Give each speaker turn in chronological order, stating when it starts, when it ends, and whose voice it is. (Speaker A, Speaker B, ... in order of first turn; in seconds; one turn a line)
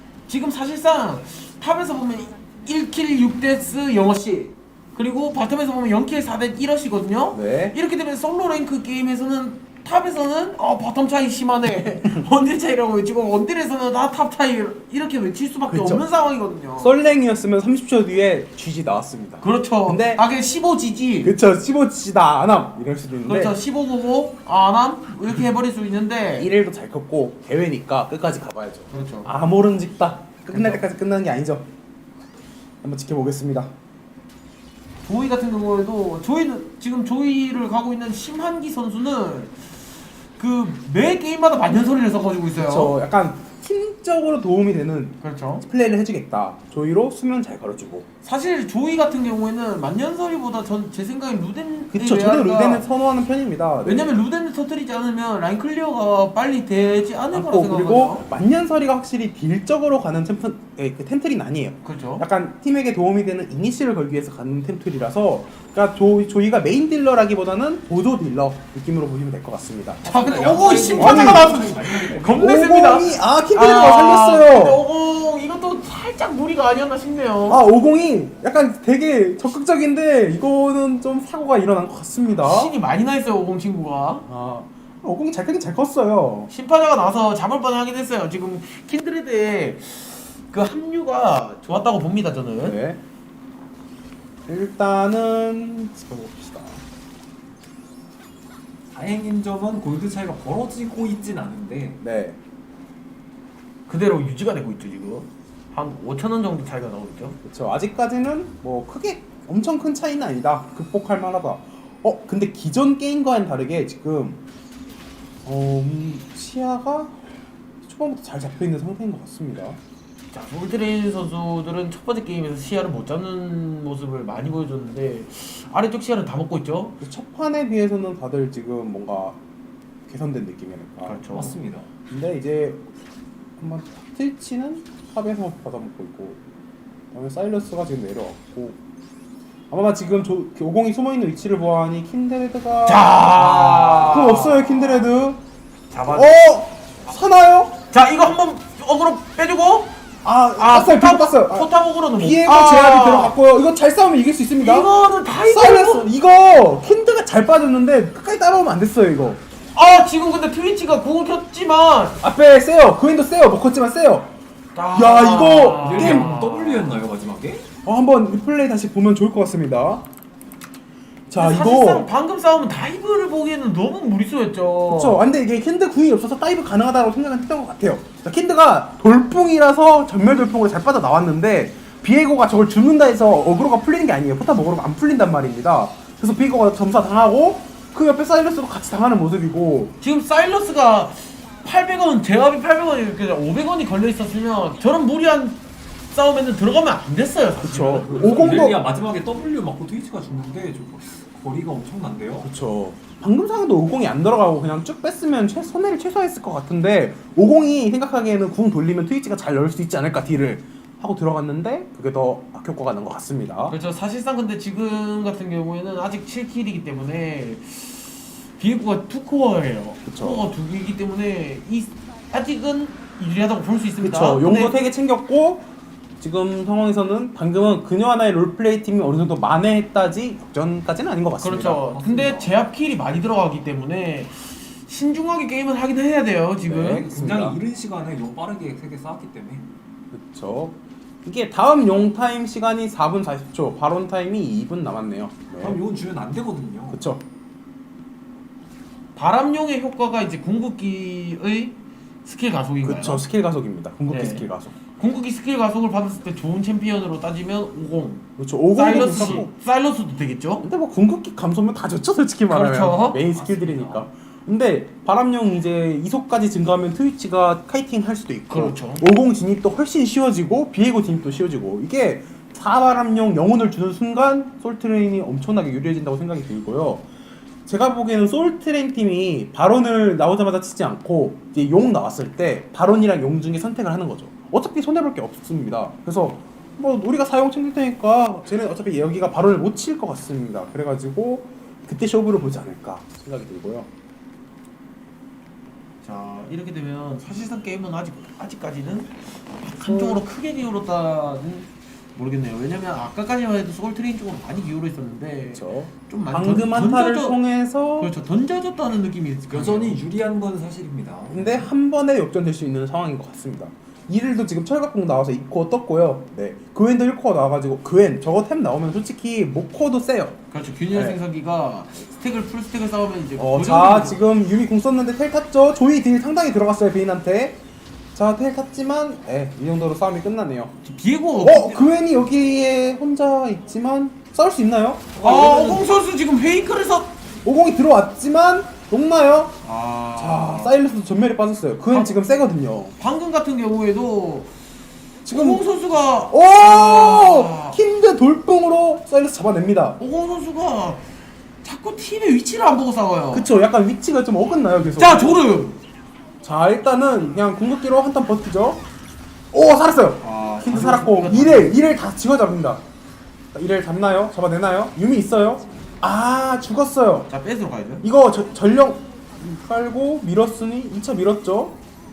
Speaker A: 0.3-16.9
Speaker B: 7.3-7.8
Speaker B: 15.7-16.1
Speaker B: 16.8-20.2
Speaker A: 19.4-21.4
Speaker B: 21.2-23.6
Speaker A: 23.2-26.5
Speaker B: 26.4-31.7
Speaker A: 28.9-29.3
Speaker A: 30.5-30.8
Speaker B: 32.8-33.7
Speaker A: 35.0-39.6
Speaker A: 40.4-42.9
Speaker B: 42.5-48.1
Speaker A: 45.2-45.6
Speaker A: 48.2-52.9
Speaker B: 51.9-54.2
Speaker A: 53.8-58.2
Speaker B: 57.3-70.0
Speaker A: 61.8-62.2
Speaker C: 70.0-72.6
Speaker A: 70.0-77.6
Speaker B: 70.9-71.6
Speaker B: 72.3-74.8
Speaker B: 77.5-82.7
Speaker A: 82.4-84.3
Speaker B: 84.3-86.5
Speaker A: 86.5-92.8
Speaker B: 92.6-93.0
Speaker B: 94.5-96.8
Speaker C: 98.9-102.0
Speaker B: 102.0-102.4
Speaker A: 103.9-107.4
Speaker B: 107.4-114.4
Speaker B: 115.5-117.2
Speaker B: 117.8-119.8
Speaker A: 120.3-127.0
Speaker B: 127.0-129.4
Speaker B: 130.1-131.4
Speaker A: 131.0-131.6
Speaker C: 131.3-131.9
Speaker B: 132.1-132.9
Speaker B: 133.6-136.4
Speaker B: 137.1-138.8
Speaker B: 139.7-145.4
Speaker A: 142.9-145.1
Speaker A: 145.9-146.4
Speaker B: 146.0-147.8
Speaker A: 147.9-150.0
Speaker B: 150.2-154.9
Speaker A: 150.6-153.4
Speaker A: 154.6-156.1
Speaker B: 155.4-159.4
Speaker A: 159.8-162.2
Speaker B: 162.2-164.3
Speaker A: 164.8-166.9
Speaker B: 164.9-166.3
Speaker C: 165.8-167.7
Speaker B: 167.8-170.1
Speaker B: 171.3-172.1
Speaker A: 171.3-175.2
Speaker B: 174.9-189.9
Speaker A: 190.0-198.6
Speaker B: 197.6-198.8
Speaker C: 197.9-202.5
Speaker B: 202.4-213.8
Speaker A: 213.7-224.7
Speaker B: 220.1-220.5
Speaker B: 224.0-225.7
Speaker B: 226.2-231.8
Speaker A: 231.4-237.1
Speaker C: 231.9-232.6
Speaker B: 236.6-237.6
Speaker C: 236.9-239.7
Speaker B: 240.1-245.8
Speaker C: 245.6-247.1
Speaker B: 246.9-247.2
Speaker A: 249.2-253.2
Speaker B: 252.8-254.8
Speaker A: 254.1-254.4
Speaker A: 255.0-260.7
Speaker B: 258.4-259.5
Speaker B: 260.6-277.1
Speaker A: 262.5-263.2
Speaker C: 263.3-264.1
Speaker A: 268.5-269.1
Speaker B: 277.7-293.9
Speaker A: 296.0-307.4
Speaker B: 299.9-300.2
Speaker B: 305.6-308.1
Speaker A: 308.0-310.0
Speaker C: 309.5-311.7
Speaker B: 311.3-320.4
Speaker A: 320.5-324.2
Speaker B: 320.9-321.2
Speaker B: 323.4-327.6
Speaker B: 328.1-330.7
Speaker A: 330.8-331.9
Speaker B: 331.4-335.8
Speaker A: 335.2-337.2
Speaker B: 337.4-339.6
Speaker A: 339.6-340.7
Speaker B: 340.2-342.9
Speaker A: 343.0-344.5
Speaker B: 345.3-345.6
Speaker A: 345.3-347.8
Speaker B: 346.3-350.0
Speaker A: 350.0-351.1
Speaker A: 351.6-353.5
Speaker B: 353.3-355.4
Speaker A: 355.0-355.8
Speaker B: 356.4-358.8
Speaker B: 359.5-362.8
Speaker A: 360.2-361.8
Speaker B: 363.5-367.3
Speaker A: 367.3-368.0
Speaker B: 368.0-371.8